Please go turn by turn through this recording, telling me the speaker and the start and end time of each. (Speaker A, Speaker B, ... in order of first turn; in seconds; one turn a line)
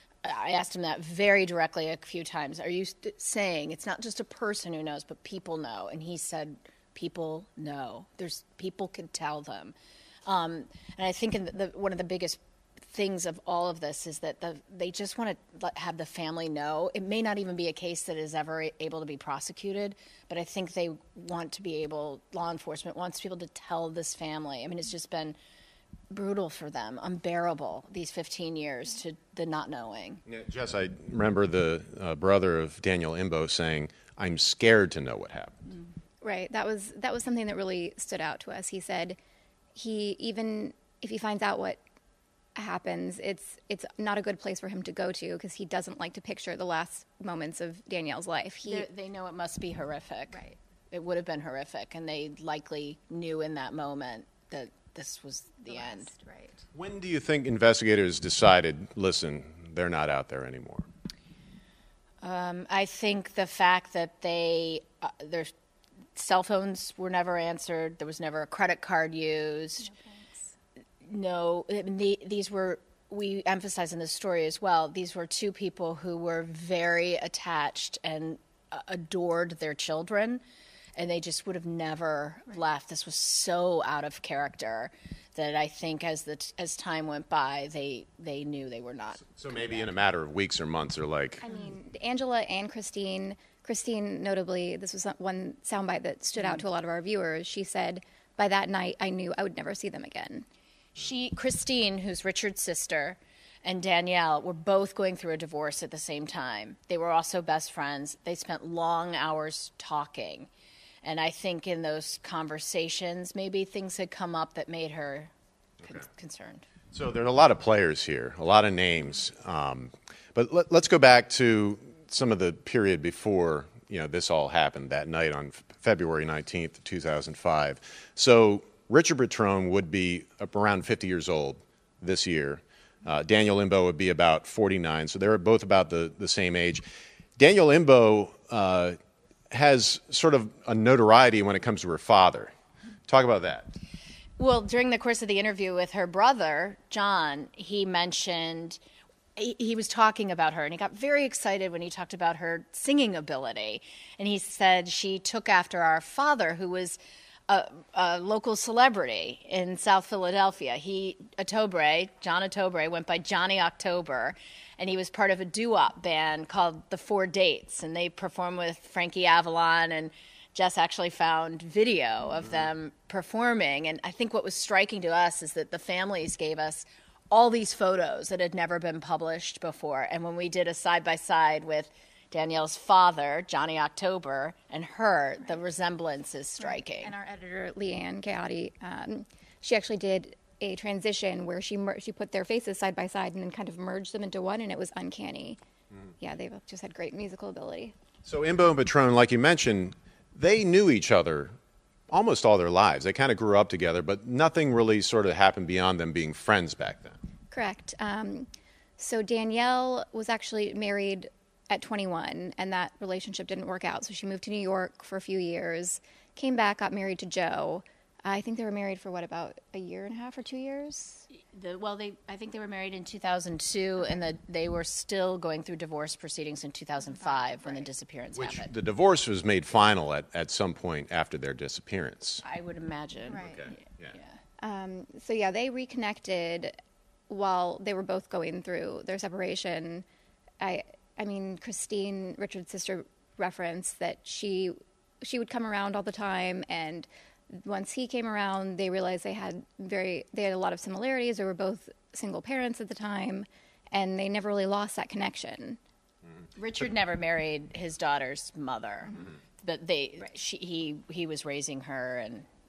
Speaker A: 0.2-9.8
Speaker A: 10.3-25.4
Speaker A: 26.1-30.2
Speaker B: 30.3-35.6
Speaker C: 36.2-39.2
Speaker C: 39.8-41.8
Speaker C: 42.5-48.9
Speaker A: 48.6-50.4
Speaker A: 50.9-56.1
Speaker C: 55.7-56.6
Speaker B: 56.8-60.9
Speaker A: 62.2-65.5
Speaker A: 66.2-69.9
Speaker C: 69.9-70.5
Speaker A: 71.0-80.4
Speaker A: 81.0-89.9
Speaker B: 89.2-91.4
Speaker C: 91.4-100.5
Speaker A: 96.4-96.6
Speaker A: 101.0-110.5
Speaker A: 111.0-115.3
Speaker A: 115.8-116.7
Speaker B: 116.9-136.8
Speaker B: 137.4-139.0
Speaker B: 139.5-142.5
Speaker B: 143.1-143.7
Speaker A: 144.4-148.8
Speaker A: 149.4-157.0
Speaker A: 157.5-187.1
Speaker C: 186.6-195.6
Speaker C: 196.2-197.9
Speaker B: 198.2-201.5
Speaker B: 202.1-207.2
Speaker C: 207.5-221.3
Speaker A: 221.3-228.7
Speaker C: 227.2-227.8
Speaker B: 228.3-232.4
Speaker A: 232.4-234.4
Speaker C: 233.3-233.6
Speaker B: 233.4-234.2
Speaker C: 234.6-236.8
Speaker C: 237.3-240.1
Speaker C: 240.6-255.8
Speaker A: 256.6-262.5